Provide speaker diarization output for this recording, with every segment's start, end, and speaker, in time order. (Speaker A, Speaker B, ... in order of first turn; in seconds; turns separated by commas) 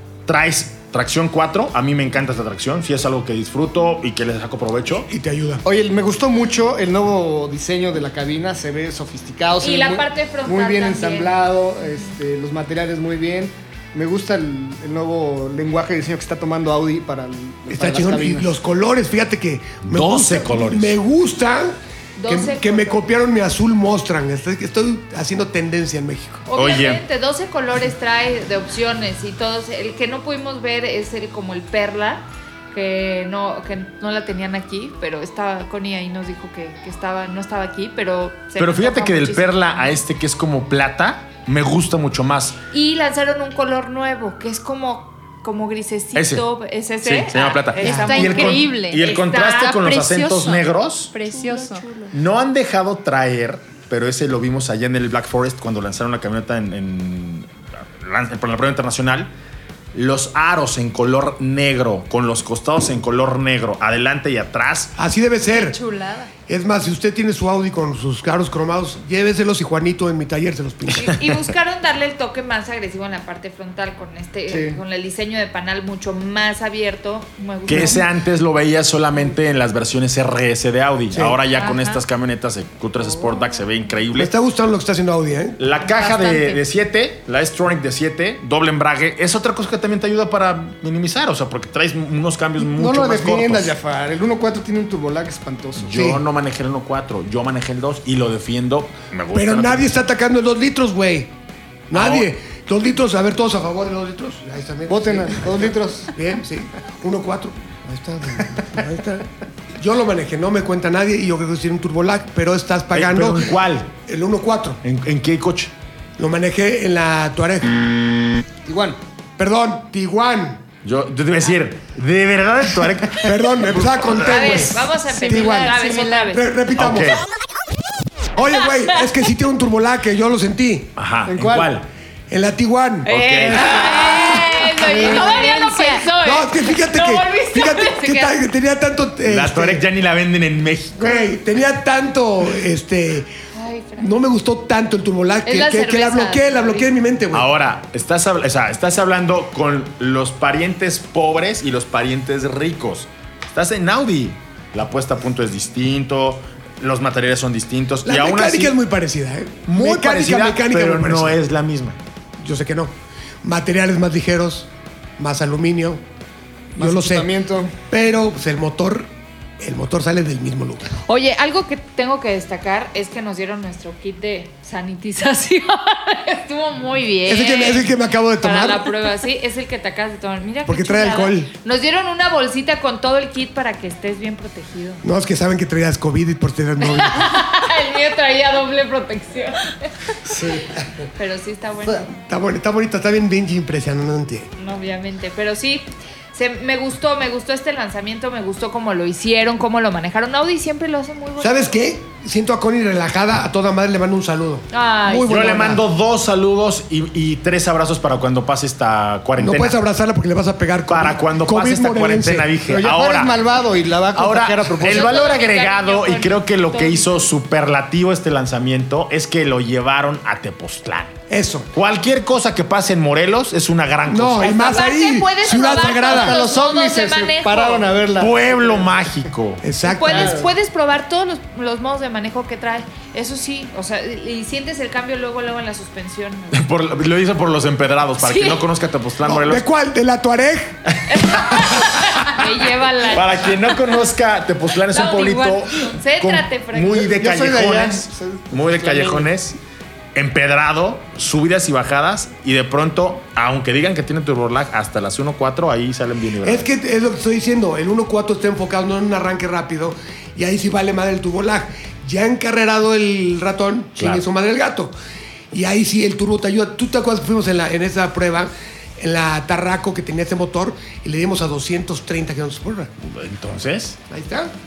Speaker A: 0.3-5.1, Speaker B: 5.0-5.6, Speaker C: 5.7-18.5, Speaker D: 9.6-11.4, Speaker B: 17.7-26.4, Speaker A: 19.9-21.0, Speaker D: 22.2-23.0, Speaker D: 26.5-40.0, Speaker A: 26.6-27.0, Speaker A: 38.6-42.6, Speaker D: 42.7-49.8, Speaker A: 46.1-46.5, Speaker A: 47.0-51.1, Speaker E: 47.8-52.0, Speaker D: 51.2-52.1, Speaker A: 52.1-59.3, Speaker A: 59.9-64.9, Speaker B: 65.0-65.8, Speaker E: 65.5-66.3, Speaker B: 66.5-71.1, Speaker D: 71.0-78.1, Speaker C: 74.5-74.8, Speaker A: 77.7-84.3, Speaker B: 81.1-81.4, Speaker D: 81.6-82.0, Speaker B: 84.2-85.6, Speaker A: 85.6-93.7, Speaker E: 86.0-86.5, Speaker C: 92.6-95.9, Speaker A: 95.8-99.9, Speaker B: 95.9-96.2, Speaker B: 99.3-101.3, Speaker B: 101.9-114.8, Speaker A: 101.9-102.3, Speaker C: 104.9-106.1, Speaker A: 112.9-113.9, Speaker A: 114.8-115.7, Speaker B: 116.2-117.8, Speaker C: 118.7-119.0, Speaker B: 119.4-120.6, Speaker A: 120.8-124.6, Speaker B: 123.2-127.2, Speaker D: 124.1-126.4, Speaker E: 125.0-126.4, Speaker A: 126.8-127.2, Speaker B: 128.3-130.9, Speaker A: 131.0-131.9, Speaker C: 131.3-131.7, Speaker B: 132.3-133.1, Speaker D: 133.1-138.4, Speaker A: 133.1-133.8, Speaker E: 133.8-136.1, Speaker C: 134.9-135.3, Speaker B: 136.2-139.8, Speaker A: 139.2-141.3, Speaker B: 141.0-143.3, Speaker D: 143.5-144.1, Speaker B: 144.0-147.5, Speaker D: 145.5-146.9, Speaker A: 147.3-158.8, Speaker B: 158.1-161.4, Speaker A: 159.7-162.0, Speaker B: 162.4-166.0, Speaker C: 166.8-167.7, Speaker B: 166.8-167.3, Speaker B: 167.9-170.9, Speaker D: 171.1-185.1, Speaker B: 177.3-179.0, Speaker B: 180.7-181.5, Speaker B: 185.0-187.3, Speaker D: 186.8-189.9, Speaker C: 190.2-190.8, Speaker D: 191.2-192.1, Speaker B: 192.1-194.5, Speaker D: 194.6-201.8, Speaker B: 201.4-205.9, Speaker D: 204.7-205.4, Speaker A: 205.3-209.8, Speaker B: 209.4-212.5, Speaker A: 210.9-213.5, Speaker C: 212.7-215.2, Speaker A: 214.1-221.2, Speaker D: 214.8-217.3, Speaker B: 221.3-221.7, Speaker A: 221.7-224.7, Speaker B: 224.1-226.4, Speaker D: 224.4-227.9, Speaker C: 226.0-228.9, Speaker A: 228.2-229.6, Speaker B: 229.6-230.4, Speaker D: 229.8-236.7, Speaker C: 230.1-230.5, Speaker A: 236.5-239.7, Speaker D: 238.2-238.6, Speaker B: 239.2-240.8, Speaker A: 241.1-241.8, Speaker D: 241.1-243.5, Speaker A: 243.1-249.6, Speaker D: 244.9-247.1, Speaker C: 246.9-249.3, Speaker A: 250.2-256.7, Speaker B: 256.4-264.9, Speaker A: 264.0-264.2, Speaker B: 265.5-272.9, Speaker A: 273.0-274.0, Speaker B: 274.1-274.5